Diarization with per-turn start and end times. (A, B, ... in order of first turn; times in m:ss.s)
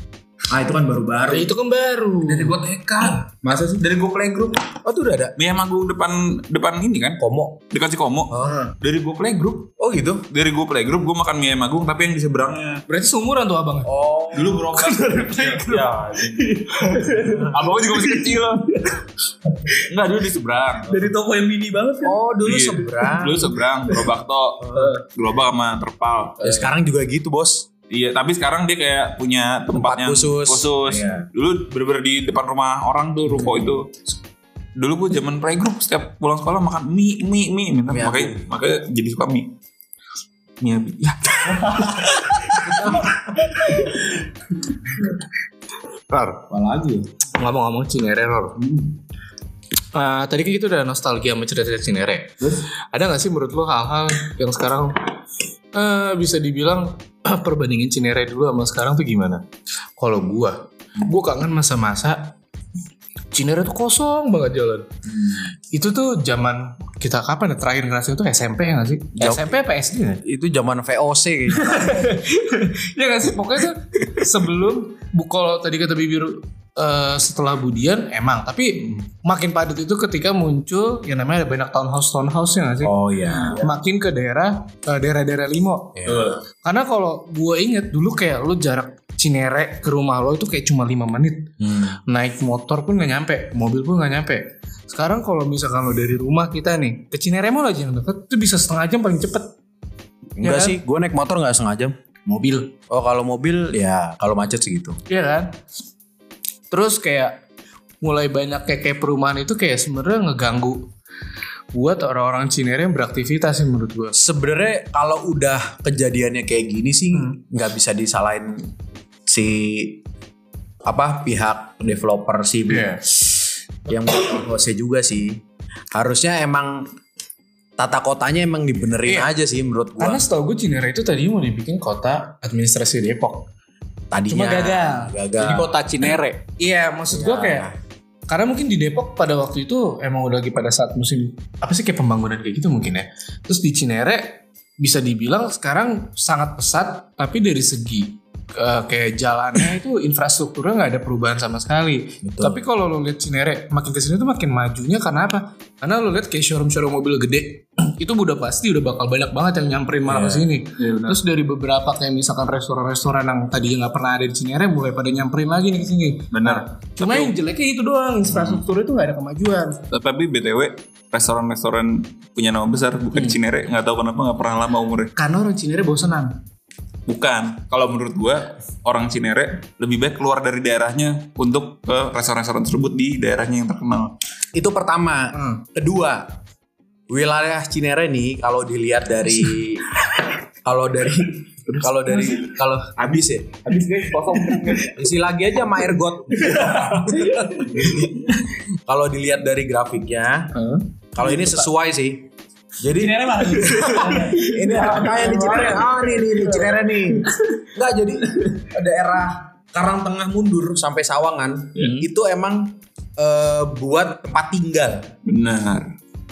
0:00.5-0:01.5 A
0:01.3-0:03.1 B
0:03.2-0:05.4 A
0:03.9-0:04.3 C
0:05.4-0:07.2 C
0:07.2-0:07.6 A
0:07.7-0:09.7 C
0:08.3-0:08.6 A
0:08.4-0:08.7 B
0:09.8-0:10.2 A
0:10.3-0:12.8 C
0:12.9-0:13.9 B
0:13.8-0:14.6 A
0:14.3-0:18.7 C
0:14.5-0:19.0 B
0:19.8-0:21.1 C
0:20.9-0:22.1 B
0:22.0-0:23.5 A
0:22.4-0:26.5 C
0:26.4-0:27.7 A
0:27.9-0:33.9 C
0:29.7-0:31.2 A
0:34.8-0:39.5 C
0:37.9-0:38.4 A
0:40.6-0:42.9 C
0:42.7-0:43.1 A
0:46.1-0:46.5 B
0:47.4-0:48.6 B
0:49.9-0:55.1 B
0:55.7-0:59.4 B
1:00.0-1:02.3 B
1:03.3-1:04.9 B
1:05.2-1:05.4 C
1:05.7-1:10.2 B
1:09.2-1:09.5 A
1:10.2-1:12.1 A
1:11.5-1:26.0 B
1:22.8-1:23.7 A
1:26.0-1:26.4 A
1:26.6-1:31.5 B
1:31.6-1:31.9 A
1:32.1-1:39.5 B
1:40.4-1:41.9 A
1:40.4-1:40.8 B
1:42.2-1:42.7 B
1:42.9-1:45.0 A
1:45.1-1:45.6 B
1:46.7-1:47.4 B
1:48.0-1:50.9 B
1:51.7-1:54.2 B
1:54.1-1:58.7 A
1:59.2-2:00.0 A
2:00.8-2:03.0 A
2:02.7-2:03.0 B
2:03.9-2:06.9 A
2:07.8-2:10.2 A
2:10.0-2:13.4 B
2:14.1-2:15.7 A
2:14.3-2:15.1 B
2:15.4-2:16.4 D
2:16.6-2:17.7 B
2:17.1-2:17.7 A
2:18.3-2:49.8 B
2:32.2-2:32.6 A
2:40.1-2:40.5 A
2:40.8-2:41.2 C
2:46.3-2:47.3 C
2:48.3-2:48.6 C
2:49.9-2:55.1 C
2:55.2-2:56.4 B
2:57.1-3:04.1 C
3:04.5-3:06.3 A
3:07.1-3:10.0 A
3:10.6-3:13.6 A
3:11.8-3:12.3 C
3:13.6-3:14.9 C
3:14.8-3:17.0 A
3:16.5-3:17.7 B
3:17.6-3:18.3 A
3:18.9-3:20.5 A
3:20.6-3:20.8 B
3:21.1-3:35.1 A
3:23.3-3:26.9 B
3:23.4-3:24.2 D
3:31.8-3:32.0 C
3:35.2-3:35.9 C